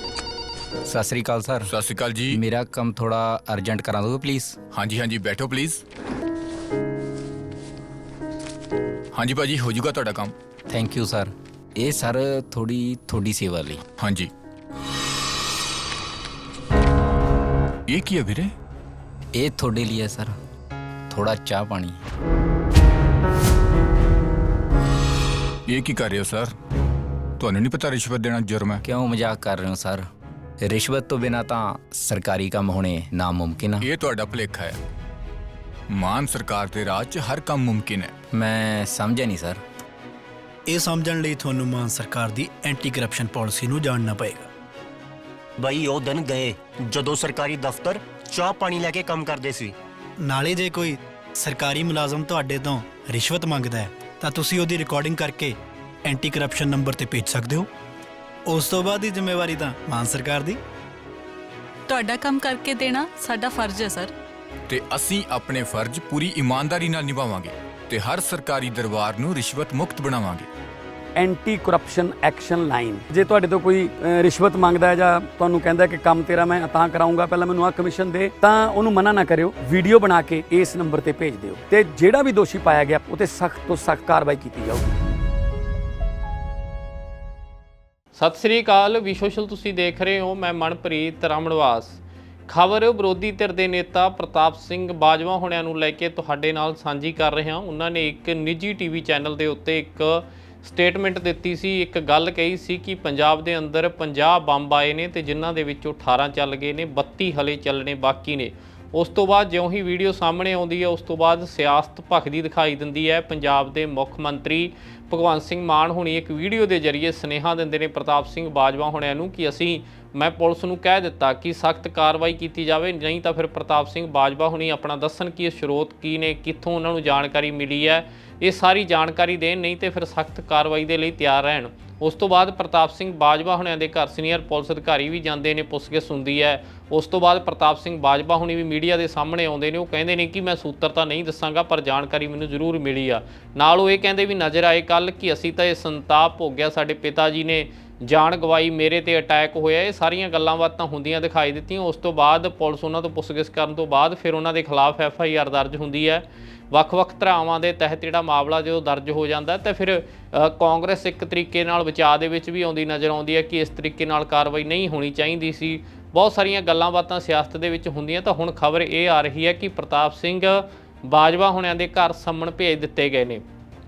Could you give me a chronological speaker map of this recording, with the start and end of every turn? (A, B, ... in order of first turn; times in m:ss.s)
0:00.9-0:01.7 A
0:01.7-0:02.4 B
0:02.3-0:04.6 A
0:04.7-0:05.8 B
0:09.1-0:10.3 B
0:10.7-0:13.8 A
0:14.0-0:14.3 B
0:17.9-0:18.5 B
0:19.3-0:20.4 A
0:21.1-0:22.0 A
0:25.7-0:26.6 B
0:27.4-0:28.8 B
0:28.8-0:30.1 A
0:30.6-0:33.9 A
0:33.8-0:34.8 B
0:35.9-0:38.1 B
0:38.3-0:39.6 A
0:40.7-0:44.5 C
0:45.6-0:49.8 D
0:50.2-0:57.7 C
0:58.5-1:00.6 C
1:01.9-1:04.1 E
1:04.7-1:10.5 B
1:11.2-1:24.9 F
1:28.2-2:53.4 G